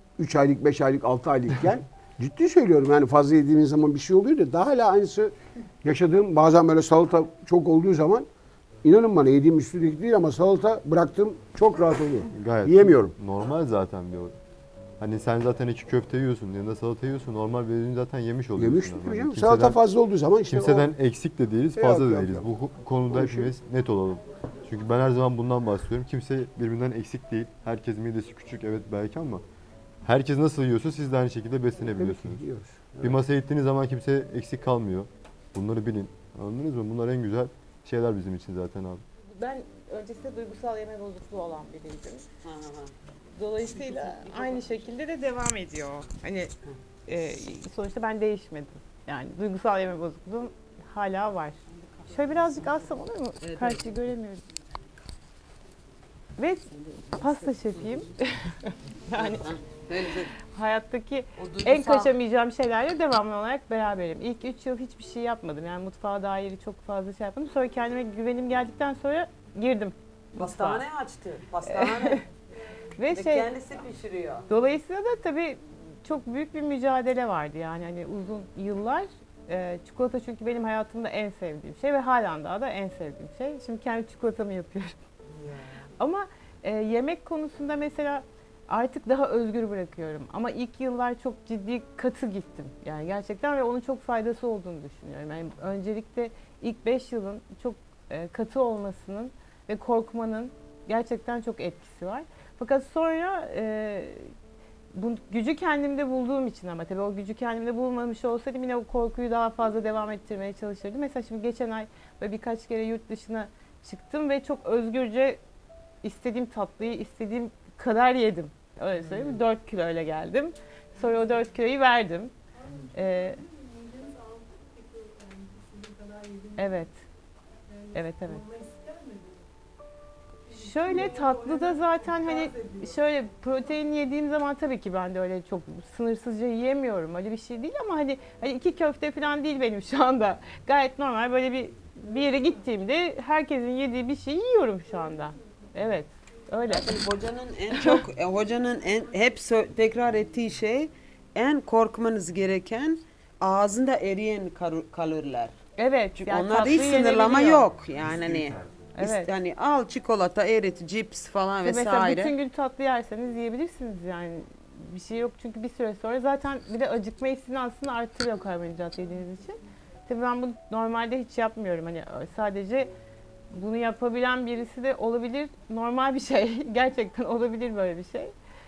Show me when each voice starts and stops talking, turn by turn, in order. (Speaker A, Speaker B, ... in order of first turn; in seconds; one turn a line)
Speaker A: 0.2-8.3
Speaker A: 8.8-13.2
Speaker B: 12.3-14.3
Speaker B: 15.0-19.8
Speaker A: 18.6-20.9
Speaker B: 20.5-29.4
Speaker A: 21.8-22.5
Speaker A: 23.1-23.5
Speaker B: 30.0-32.4
Speaker A: 31.8-33.2
Speaker B: 33.0-39.0
Speaker C: 39.3-42.2
Speaker D: 42.5-42.9
Speaker C: 43.4-46.5
Speaker D: 44.3-44.7
Speaker C: 47.1-51.6
Speaker C: 52.1-54.5
Speaker D: 53.4-53.9
Speaker C: 56.4-59.5
Speaker D: 59.1-60.3
Speaker C: 60.4-70.8
Speaker D: 61.4-62.1
Speaker D: 70.3-72.2
Speaker C: 71.7-72.2
Speaker C: 73.0-73.5
Speaker D: 73.1-74.5
Speaker C: 74.5-85.0
Speaker C: 86.0-104.3
Speaker C: 104.9-115.4
Speaker C: 116.0-122.3
Speaker D: 119.0-119.4
Speaker C: 122.9-123.4
Speaker C: 126.6-127.0
Speaker C: 127.9-128.4
Speaker C: 130.5-146.9
Speaker D: 146.7-155.6
Speaker C: 147.8-148.0
Speaker C: 155.8-157.7
Speaker D: 156.2-162.3
Speaker C: 158.9-159.3
Speaker C: 161.7-172.9
Speaker C: 173.5-178.3